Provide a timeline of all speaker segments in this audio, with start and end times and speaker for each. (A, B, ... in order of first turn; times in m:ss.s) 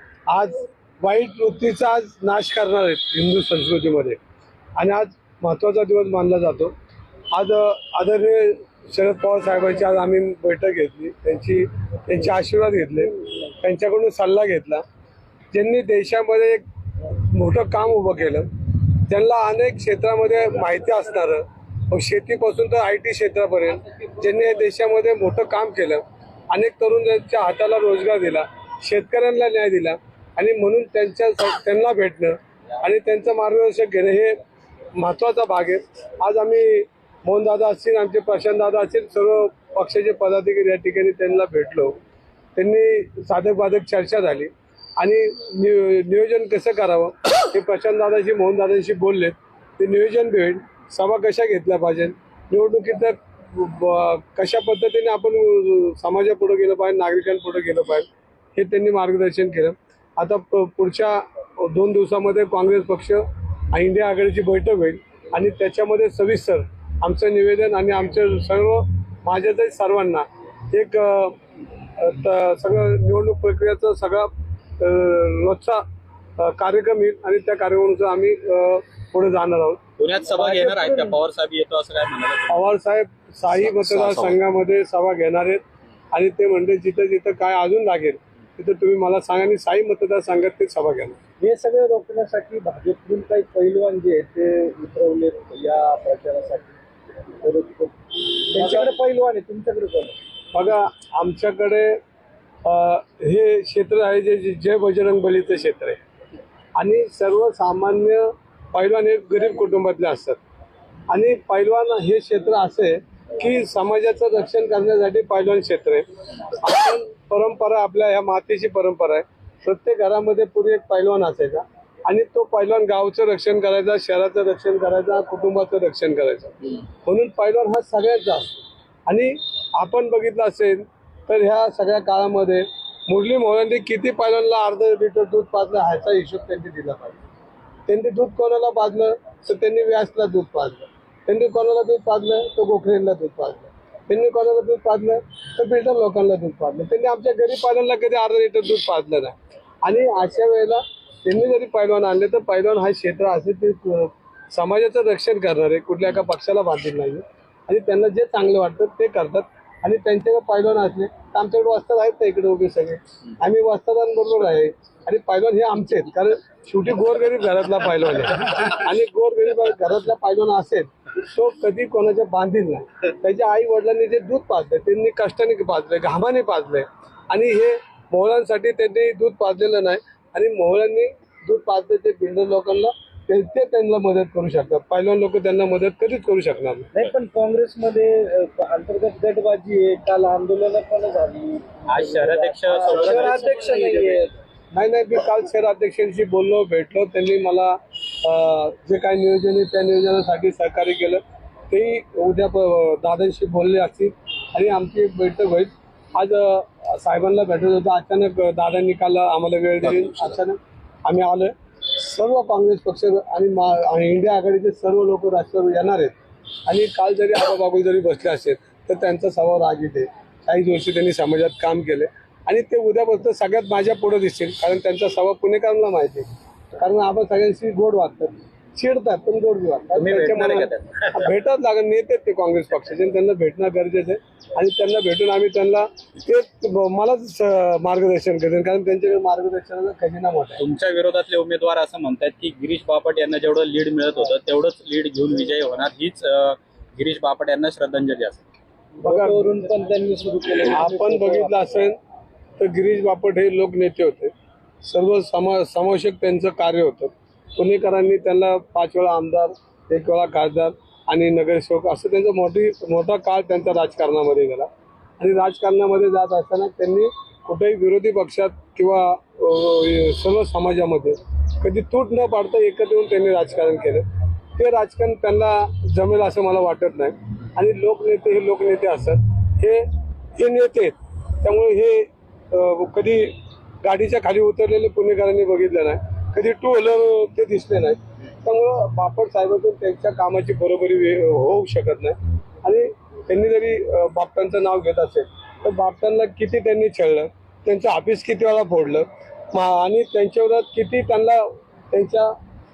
0:00.3-0:04.2 A
0:04.8-0:06.7 A
0:07.3-0:14.8 A
0:15.5-0:16.6 A
0:17.3-0:34.4 A
0:35.0-0:42.0 A
0:42.6-1:11.4 A
1:12.0-1:15.8 A
1:16.4-1:19.8 A
1:20.0-1:22.6 B
1:20.4-1:21.1 C
1:22.5-1:31.2 A
1:23.5-1:24.4 B
1:31.4-1:36.7 C
1:37.4-1:40.2 C
1:38.6-1:38.9 A
1:40.5-1:42.0 A
1:42.6-1:46.0 A
1:46.8-1:50.4 A
1:51.1-2:17.2 A
2:17.9-3:06.9 A
3:06.9-3:14.3 C
3:11.9-3:14.2 B
3:13.1-3:13.5 A
3:14.7-3:36.2 A
3:36.7-4:00.6 A
3:49.9-3:51.3 B
4:00.6-4:08.4 B
4:09.0-4:09.5 A
4:09.0-4:11.8 C
4:10.7-4:12.0 A
4:12.6-4:34.0 A
4:34.6-5:02.3 A